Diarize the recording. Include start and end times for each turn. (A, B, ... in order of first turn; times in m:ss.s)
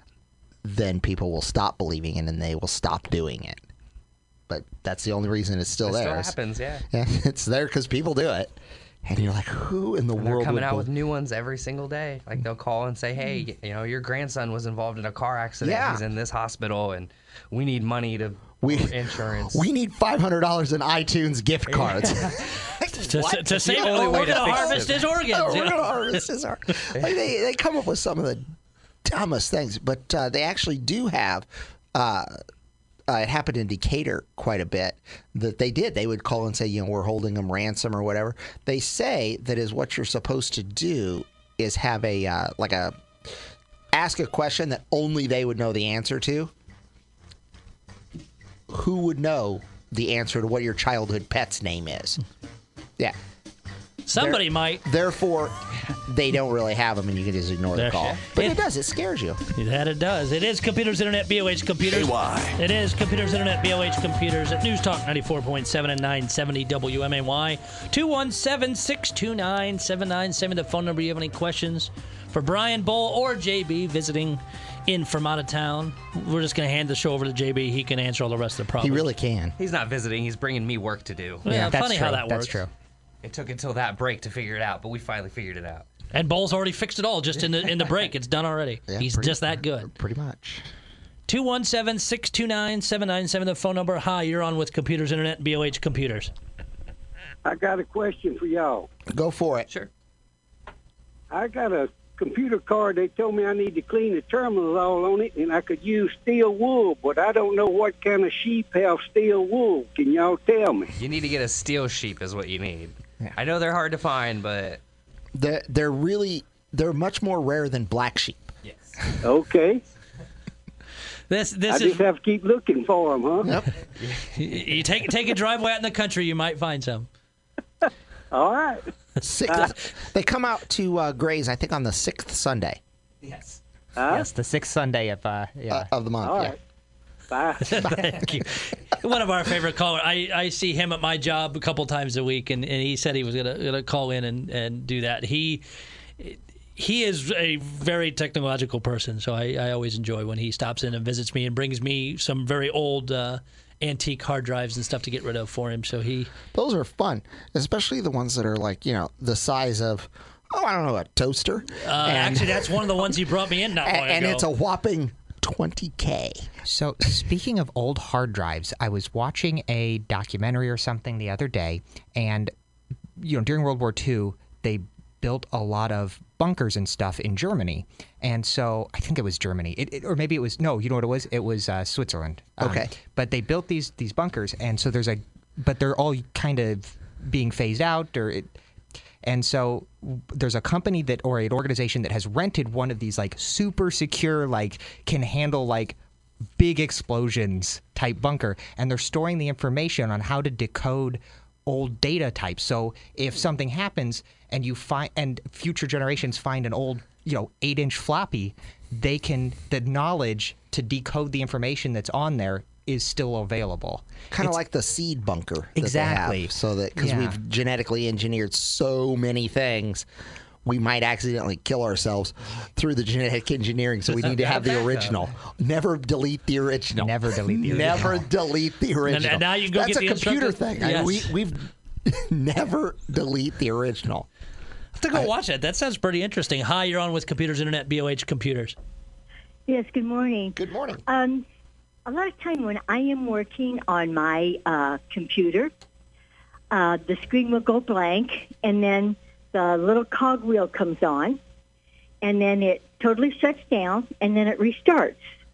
0:00.6-0:03.6 A
0:04.5-0:06.4 A
0:05.8-0:06.8 B
0:06.9-0:10.9 A
0:10.2-0:19.6 B
0:15.6-0:16.0 A
0:18.6-0:28.5 A
0:21.7-0:22.4 B
0:23.1-0:26.2 C
0:23.6-0:25.0 B
0:29.0-0:32.4 A
0:33.1-0:43.3 A
0:43.9-0:46.5 A
0:48.7-0:52.2 A
0:54.0-0:54.8 C
0:54.2-0:59.4 A
0:57.7-0:58.6 C
0:59.5-1:19.1 C
1:02.0-1:02.5 B
1:18.8-1:19.5 A
1:19.6-1:21.5 B
1:21.5-1:22.6 C
1:21.5-1:22.7 D
1:23.2-1:25.8 B
1:26.1-1:29.9 C
1:28.9-1:30.6 A
1:31.3-1:36.3 C
1:37.4-1:38.9 E
1:39.1-1:39.7 A
1:41.3-1:50.9 E
1:51.0-1:54.8 B
1:55.3-1:58.5 A
1:59.2-1:59.8 E
2:01.3-2:02.0 C
2:01.7-2:03.5 E
2:03.4-2:03.7 A
2:04.0-2:04.3 B
2:04.4-2:07.1 C
2:08.3-2:08.8 E
2:09.2-2:12.8 A
2:14.0-2:14.3 E
2:14.1-2:15.9 D
2:15.7-2:16.5 A
2:16.2-2:16.6 E
2:17.3-2:18.0 E
2:17.6-2:25.6 C
2:26.2-2:36.3 C
2:36.5-2:43.0 A
2:41.8-2:44.5 C
2:43.8-2:46.5 A
2:46.7-2:52.5 D
2:53.2-3:08.5 D
3:02.6-3:02.9 A
3:09.2-3:16.0 D
3:16.6-3:34.5 D
3:34.3-3:40.0 A
3:35.8-3:37.4 D
3:40.6-3:54.3 A
3:44.2-3:45.3 B
3:47.0-3:48.3 D
3:49.0-3:51.3 C
3:55.0-3:58.8 C
3:59.7-4:01.5 F
4:00.6-4:01.0 A
4:02.0-4:05.7 F
4:06.7-4:11.4 F
4:12.2-4:15.2 F